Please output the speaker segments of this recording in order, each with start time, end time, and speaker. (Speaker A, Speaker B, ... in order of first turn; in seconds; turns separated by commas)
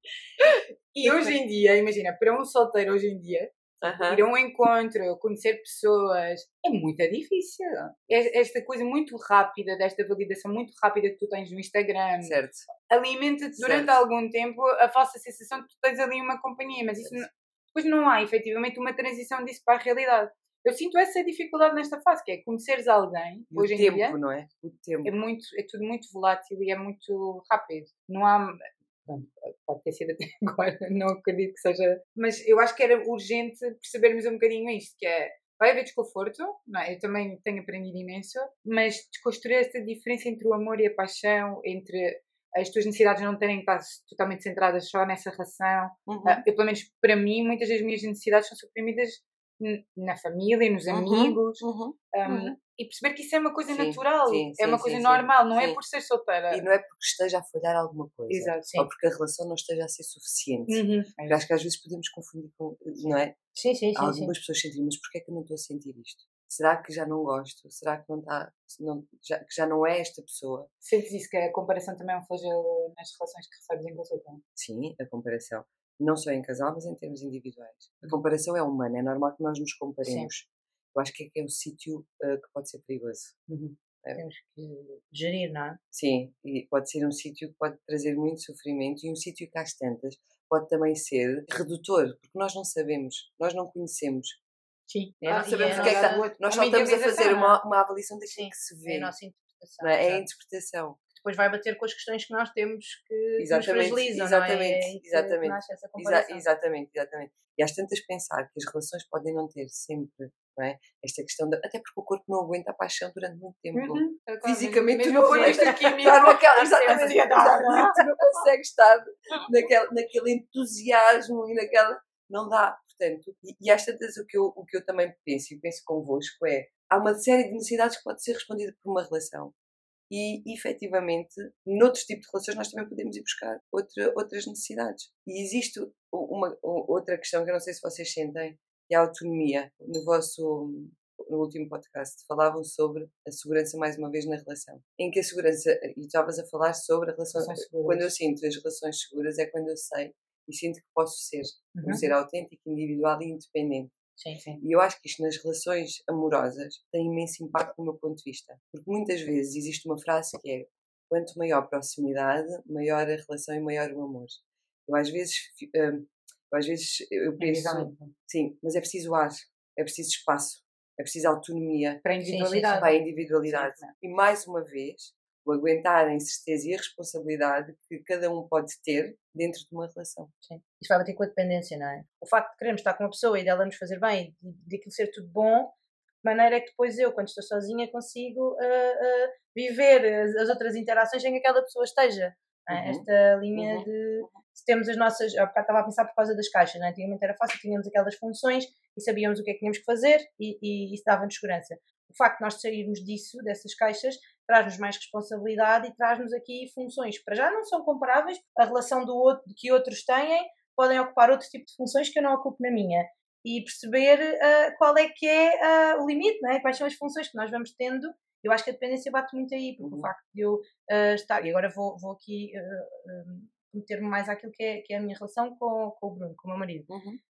Speaker A: 0.4-24.2, Speaker B: 1.0-1.4, Speaker B: 3.8-4.2, Speaker B: 12.2-12.7, Speaker B: 13.6-14.0, Speaker B: 23.5-25.1, Speaker A: 25.0-56.7, Speaker B: 46.1-46.4, Speaker B: 50.9-52.5, Speaker B: 53.7-55.8, Speaker B: 56.5-63.4, Speaker A: 58.3-58.7, Speaker A: 60.7-61.4, Speaker C: 63.5-64.3, Speaker B: 63.9-70.7, Speaker A: 70.8-74.4, Speaker B: 74.5-83.5, Speaker C: 80.0-80.3, Speaker A: 83.5-83.7, Speaker C: 84.2-85.8, Speaker B: 85.9-94.4, Speaker A: 94.9-97.6, Speaker B: 95.2-99.1, Speaker C: 95.3-96.3, Speaker C: 98.3-100.2, Speaker B: 99.8-101.0, Speaker C: 101.1-106.5, Speaker B: 103.4-129.5, Speaker A: 113.7-118.5, Speaker B: 130.1-153.9, Speaker A: 147.3-148.1, Speaker A: 154.3-154.6, Speaker B: 154.6-172.0, Speaker A: 167.4-168.1, Speaker A: 172.0-173.9, Speaker C: 172.2-172.8, Speaker B: 172.7-180.3, Speaker C: 180.4-226.9, Speaker B: 192.7-194.3, Speaker B: 219.8-220.1, Speaker B: 226.9-227.2